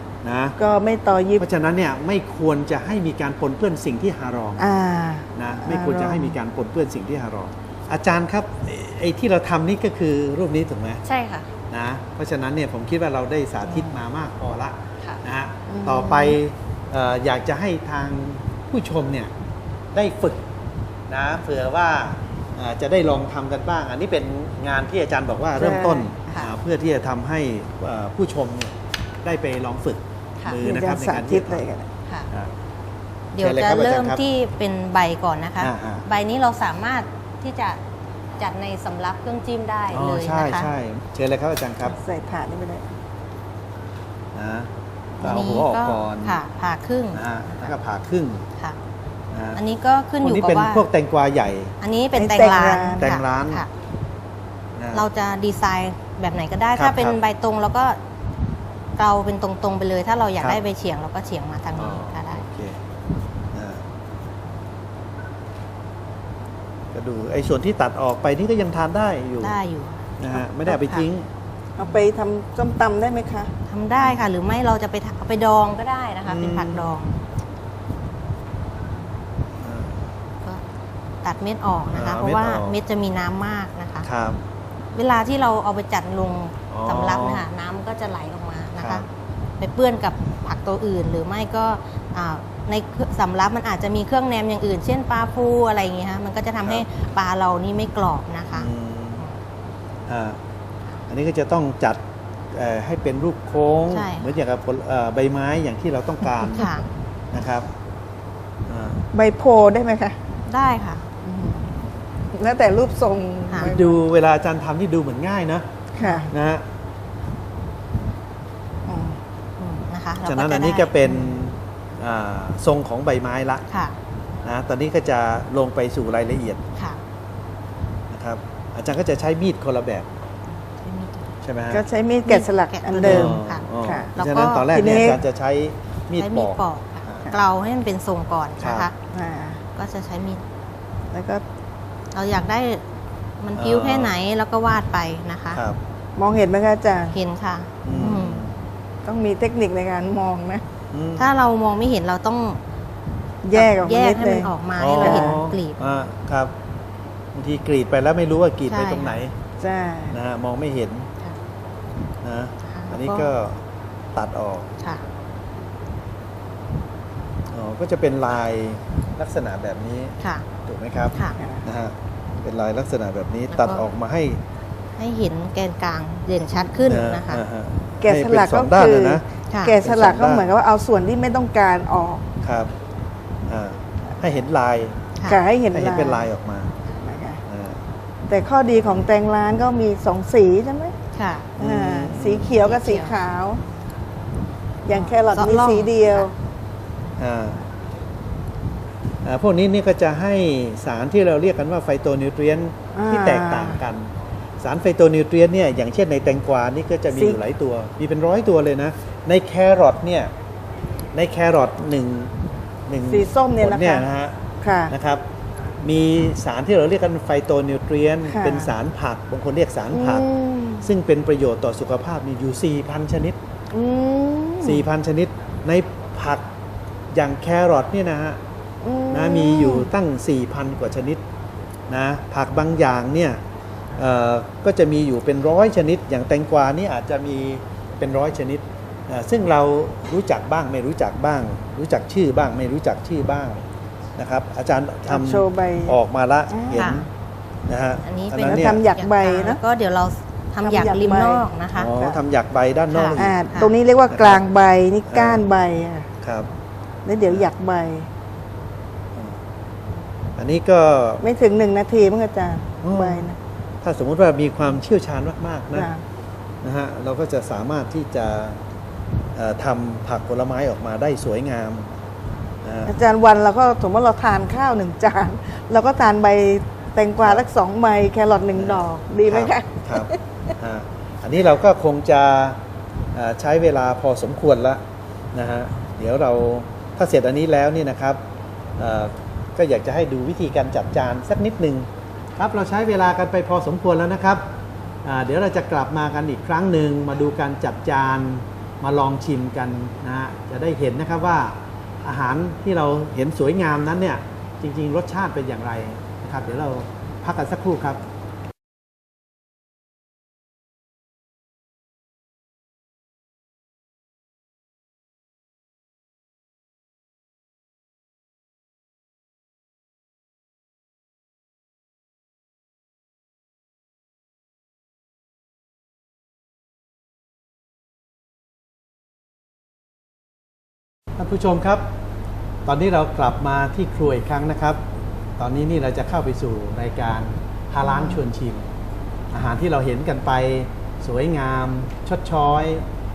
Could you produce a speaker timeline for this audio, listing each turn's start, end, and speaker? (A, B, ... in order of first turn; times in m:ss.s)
0:00.2-0:00.6 A
0:00.6-0:01.4 B
0:01.4-0:04.7 A
0:04.6-0:06.4 B
0:05.4-0:11.0 A
0:11.1-0:11.5 C
0:11.7-0:19.3 A
0:15.7-0:16.4 B
0:19.9-0:20.4 A
0:21.1-0:31.6 A
0:25.6-0:26.1 B
0:30.6-0:31.9 B
0:33.3-0:37.8 C
0:33.4-0:34.2 A
0:35.6-0:36.0 A
0:38.4-0:40.7 C
0:39.9-0:42.0 A
0:41.9-0:42.9 B
0:44.4-0:44.7 A
0:45.2-0:46.4 A
0:45.2-0:47.7 C
0:47.1-0:48.4 A
0:49.3-0:49.6 A
0:49.6-0:50.8 C
0:50.2-0:51.7 A
0:51.8-0:53.7 C
0:52.1-0:53.2 B
0:53.0-0:53.6 A
0:54.8-0:55.0 A
0:54.9-0:58.0 C
0:56.8-0:57.2 A
0:59.0-1:02.4 C
1:01.8-1:02.8 A
1:03.5-1:03.8 A
1:06.9-1:09.6 A
1:09.4-1:11.1 C
1:10.2-1:11.3 A
1:11.8-1:13.5 B
1:13.7-1:17.2 C
1:14.0-1:14.2 A
1:16.3-1:16.9 A
1:19.6-1:20.1 A
1:21.2-1:24.1 C
1:21.9-1:22.8 A
1:24.0-1:24.4 A
1:24.9-1:29.1 C
1:26.7-1:27.4 A
1:28.8-1:29.0 A
1:29.6-1:38.7 C
1:38.5-1:39.2 A
1:40.1-1:40.4 A
1:41.1-1:42.0 A
1:42.5-1:46.7 A
1:43.9-1:44.4 C
1:46.5-1:46.9 C
1:47.3-1:47.7 A
1:48.7-1:49.0 A
1:49.1-1:50.2 B
1:50.5-1:51.1 C
1:51.2-1:54.0 B
1:53.6-1:55.7 A
1:55.9-1:56.3 B
1:56.0-1:56.3 C
1:56.3-1:56.6 A
1:58.9-1:59.2 B
1:59.6-2:01.4 C
2:00.2-2:03.6 A
2:03.7-2:04.0 C
2:04.4-2:06.6 A
2:08.1-2:10.1 A
2:10.8-2:11.4 C
2:11.4-2:11.8 A
2:11.7-2:14.1 B
2:12.3-2:14.8 C
2:13.0-2:17.3 A
2:14.7-2:15.2 B
2:16.2-2:18.9 C
2:18.6-2:18.9 A
2:19.1-2:19.6 B
2:19.8-2:20.4 C
2:21.1-2:21.4 B
2:22.1-2:22.8 C
2:23.4-2:25.6 C
2:23.6-2:24.2 A
2:25.5-2:25.8 A
2:26.2-2:27.2 B
2:27.1-2:28.4 C
2:27.8-2:28.6 A
2:29.0-2:30.6 B
2:30.9-2:31.3 A
2:31.2-2:32.6 C
2:33.4-2:35.4 B
2:33.5-2:35.8 C
2:34.8-2:36.5 A
2:37.4-2:39.3 A
2:38.7-2:39.2 C
2:39.6-2:40.2 B
2:40.1-2:41.1 A
2:42.2-2:43.6 A
2:42.7-2:43.3 C
2:44.2-2:44.7 A
2:47.5-2:54.4 A
2:50.2-2:50.5 C
2:51.1-2:51.4 C
2:51.4-2:51.6 B
2:53.5-2:53.8 C
2:55.0-2:57.4 C
2:56.8-2:59.2 A
2:58.0-3:02.3 B
2:59.5-2:59.8 C
2:59.8-3:00.5 A
3:02.4-3:02.7 A
3:03.5-3:05.0 A
3:05.3-3:06.3 B
3:05.7-3:06.8 A
3:07.0-3:07.4 B
3:07.5-3:07.8 A
3:08.3-3:10.9 B
3:11.2-3:11.5 C
3:11.6-3:12.5 A
3:11.6-3:13.6 B
3:12.4-3:13.2 C
3:14.8-3:16.3 B
3:14.9-3:16.3 C
3:17.2-3:17.6 A
3:19.2-3:30.3 A
3:22.9-3:23.8 B
3:27.1-3:27.4 B
3:31.1-3:32.3 A
3:32.9-3:34.4 A
3:33.1-3:34.1 B
3:34.6-3:34.9 B
3:34.9-3:35.2 A
3:35.8-3:43.4 A
3:38.3-3:38.7 B
3:39.9-3:40.9 B
3:43.7-3:44.9 B
3:44.6-3:46.5 A
3:47.1-3:48.4 A
3:48.8-3:49.9 B
3:49.1-3:51.2 A
3:51.9-3:53.4 A
3:54.0-4:03.6 A
4:04.2-4:07.1 A
4:05.1-4:06.0 B
4:06.5-4:07.0 B
4:06.7-4:07.0 C
4:07.7-4:08.8 A
4:08.0-4:11.9 C
4:08.3-4:09.6 B
4:10.6-4:12.2 B
4:11.8-4:13.4 A
4:12.9-4:13.7 C
4:13.1-4:16.1 B
4:14.1-4:14.4 A
4:15.1-4:15.4 A
4:16.2-4:16.5 A
4:17.1-4:18.1 B
4:20.4-4:21.2 A
4:21.2-4:23.4 B
4:22.8-4:25.9 A
4:25.8-4:26.0 B
4:26.6-4:28.6 A
4:29.3-4:32.0 A
4:32.6-4:33.0 A
4:32.9-4:40.2 B
4:38.6-4:42.6 A
4:43.2-4:44.8 A
4:45.3-4:48.2 A
4:48.8-4:54.5 A
4:55.0-5:08.0 A
5:31.2-5:31.9 A
5:32.7-5:34.8 A
5:35.4-5:38.7 A
5:37.9-5:38.2 B
5:39.3-5:42.8 A